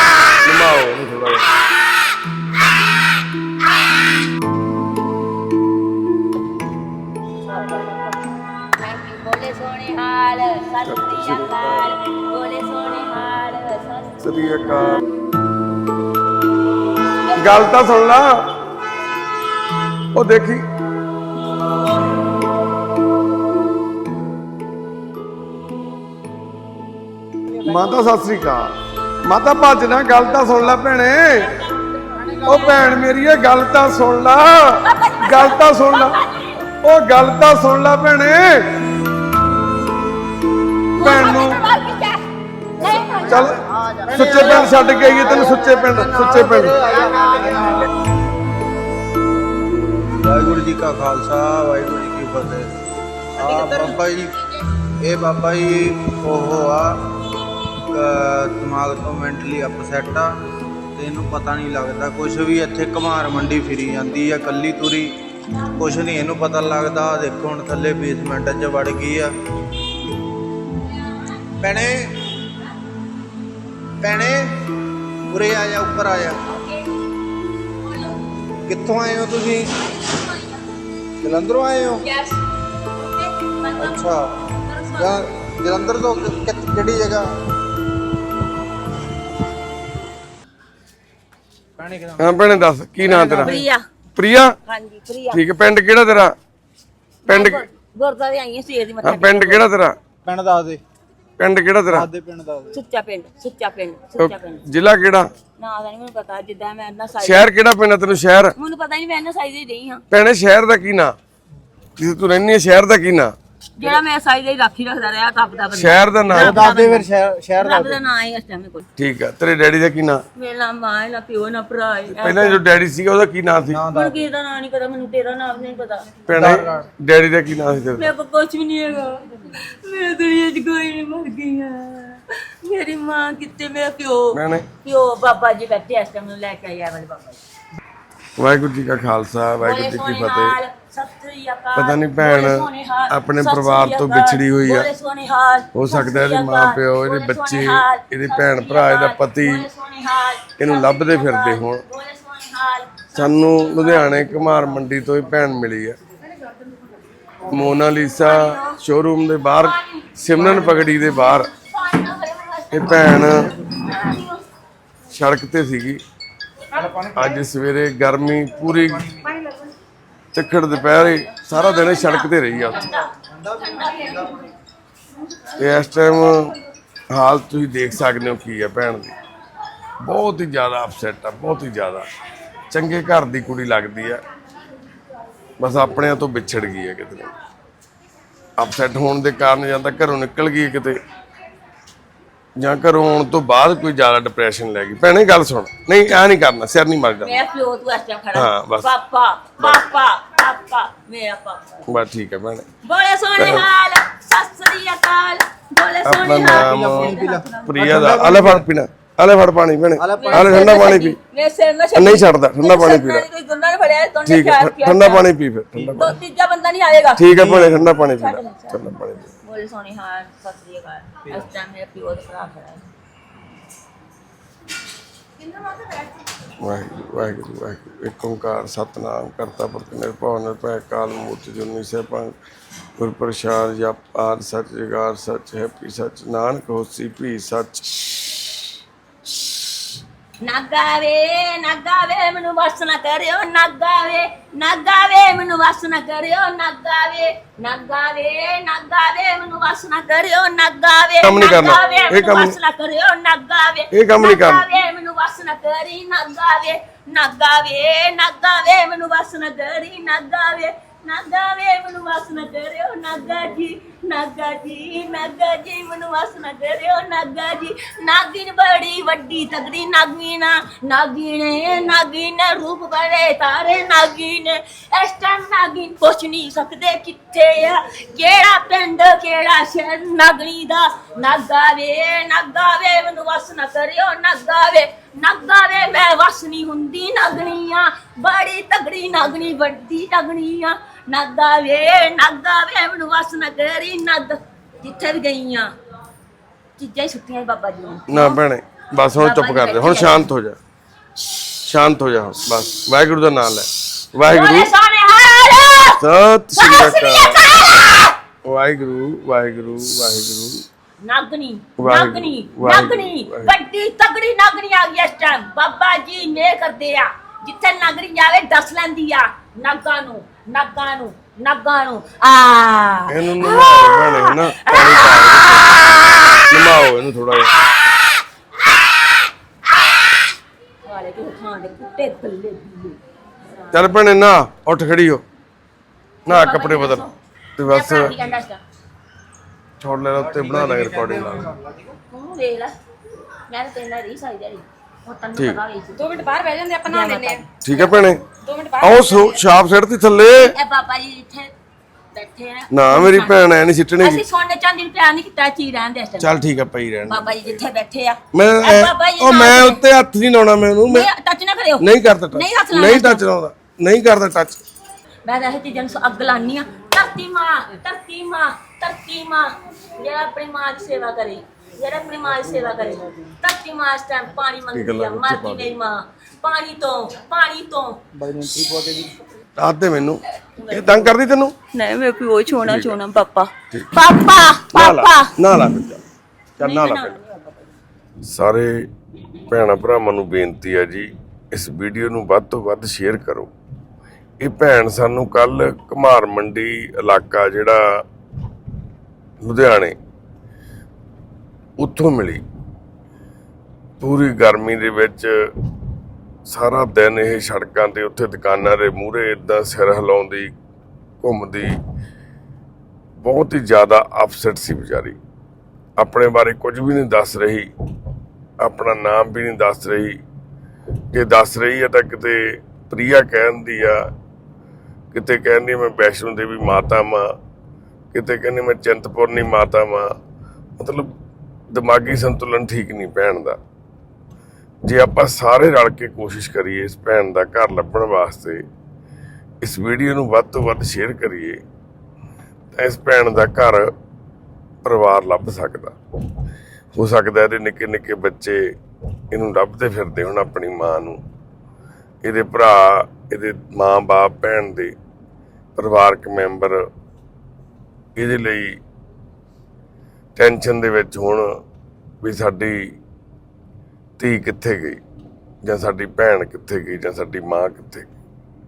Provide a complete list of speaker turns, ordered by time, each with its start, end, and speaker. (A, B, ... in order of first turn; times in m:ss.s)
0:00.4-0:01.5 A
0:07.5-0:08.0 B
0:08.8-0:14.3 B
0:10.8-0:11.9 A
0:14.2-0:15.0 A
0:17.2-0:17.8 B
0:17.4-0:18.4 A
0:20.1-0:20.6 A
0:27.6-0:28.7 A
0:29.2-0:31.6 A
0:31.8-0:32.4 B
0:32.4-0:36.2 A
0:34.8-0:36.7 B
0:36.8-0:38.8 A
0:41.0-0:43.6 B
0:41.0-0:41.7 A
0:43.1-0:47.0 A
0:43.8-0:44.5 C
0:44.2-0:45.8 B
0:45.8-0:47.8 C
0:46.9-0:47.8 D
0:50.2-0:52.7 C
0:53.4-0:54.3 D
0:53.4-0:54.3 C
0:55.0-0:57.0 C
0:57.9-1:00.3 C
1:01.0-1:05.1 C
1:05.8-1:09.3 C
1:10.8-1:11.3 B
1:14.0-1:14.6 C
1:15.3-1:16.3 C
1:16.4-1:17.0 B
1:17.8-1:18.3 B
1:18.7-1:19.7 C
1:19.7-1:20.7 B
1:21.2-1:22.0 C
1:22.0-1:25.2 B
1:23.8-1:24.2 C
1:25.4-1:27.3 C
1:31.8-1:32.3 C
1:32.2-1:33.6 A
1:33.3-1:33.8 B
1:34.2-1:34.5 A
1:34.6-1:35.4 B
1:35.3-1:36.3 A
1:37.2-1:37.6 A
1:37.3-1:39.6 B
1:39.0-1:40.0 A
1:40.2-1:40.8 C
1:41.4-1:42.1 A
1:42.0-1:42.7 C
1:42.7-1:44.6 B
1:44.2-1:45.3 A
1:45.6-1:47.5 B
1:47.2-1:48.5 A
1:48.6-1:50.0 B
1:50.1-1:51.1 A
1:52.0-1:53.3 A
1:53.8-1:58.8 B
1:55.7-1:56.7 A
1:56.6-1:57.6 C
1:56.6-1:57.9 D
1:59.0-2:00.2 A
2:00.3-2:02.6 B
2:02.1-2:03.8 A
2:03.9-2:06.1 B
2:06.3-2:08.1 A
2:06.3-2:06.8 C
2:08.0-2:17.4 B
2:14.3-2:14.7 A
2:18.4-2:20.6 A
2:19.6-2:34.6 B
2:21.7-2:24.9 A
2:25.7-2:29.7 A
2:30.6-2:31.8 A
2:33.1-2:36.0 A
2:37.5-2:41.5 A
2:38.2-2:38.8 B
2:39.6-2:44.4 B
2:42.7-2:43.5 A
2:45.1-2:46.0 A
2:47.0-2:49.1 A
2:50.3-2:53.0 A
2:50.9-2:54.5 B
2:55.6-2:56.6 A
2:57.1-2:59.1 A
3:00.0-3:02.0 A
3:02.7-3:04.2 A
3:05.6-3:07.3 A
3:08.6-3:11.0 A
3:12.6-3:17.4 A
3:17.2-3:21.8 B
3:18.3-3:18.9 A
3:21.9-3:22.7 A
3:22.8-3:28.0 B
3:23.4-3:23.7 A
3:26.0-3:31.2 A
3:26.8-3:27.3 C
3:27.8-3:28.6 C
3:30.0-3:30.7 C
3:30.2-3:35.3 B
3:31.9-3:33.3 A
3:34.2-3:36.2 A
3:36.0-3:37.3 B
3:37.2-3:39.3 A
3:37.4-3:37.6 C
3:38.1-3:38.8 B
3:39.4-3:42.8 B
3:46.6-3:52.3 A
3:53.0-3:58.5 A
4:00.4-4:55.7 B
4:11.2-4:12.6 A
4:13.9-4:14.6 A
4:56.8-4:58.4 B
4:58.1-5:00.6 A
4:59.2-5:00.3 B
5:01.6-5:04.7 A
5:04.2-5:06.0 B
5:06.0-5:07.4 A
5:06.5-5:08.2 B
5:08.4-5:10.6 A
5:11.0-5:26.0 B
5:11.8-5:13.5 A
5:23.1-5:25.8 A
5:26.5-5:27.6 A
5:30.8-5:33.0 B
5:33.7-5:35.2 A
5:36.2-5:37.0 A
5:36.3-5:37.1 B
5:37.6-5:38.2 A
5:37.6-5:38.6 B
5:39.8-5:41.5 A
5:40.2-5:41.7 C
5:42.0-5:42.7 B
5:43.5-5:46.2 B
5:46.0-5:47.4 D
5:46.8-5:48.1 B
5:47.6-5:48.2 A
5:48.4-5:49.4 D
5:48.8-5:50.6 A
5:50.4-5:51.5 B
5:52.1-5:53.4 B
5:52.7-5:54.2 A
5:54.0-5:56.3 B
5:56.2-5:57.6 A
5:57.1-5:59.8 B
5:58.3-6:01.1 A
6:00.9-6:03.2 B
6:01.8-6:04.6 A
6:05.2-6:18.0 B
6:14.7-6:15.7 A
6:18.2-6:19.0 C
6:18.5-6:19.0 D
6:19.6-6:21.5 A
6:20.5-6:21.0 B
6:21.7-6:25.3 B
6:22.6-6:23.0 A
6:24.7-6:26.0 A
6:26.6-6:27.2 A
6:26.6-6:27.7 B
6:28.3-6:28.8 A
6:29.5-6:33.5 A
6:34.4-6:37.8 A
6:39.4-6:40.0 A
6:41.8-6:42.4 A
6:44.0-6:45.5 A
6:46.4-6:50.5 A
6:51.2-6:51.7 A
6:53.2-6:55.2 A
6:56.0-6:57.7 A
6:58.6-7:00.2 A
7:01.1-7:04.0 A
7:05.1-7:07.2 A
7:08.1-7:10.1 A
7:10.8-7:11.1 A
7:11.7-7:13.6 A
7:14.8-7:18.6 A
7:19.6-7:21.6 A
7:22.7-7:23.9 A
7:24.8-7:26.0 A
7:26.9-7:28.6 A
7:29.3-7:31.2 A
7:32.2-7:34.9 A
7:35.8-7:36.8 A
7:38.2-7:38.8 A
7:40.4-7:41.5 A
7:42.2-7:43.0 A
7:44.2-7:45.0 A
7:45.6-7:48.1 A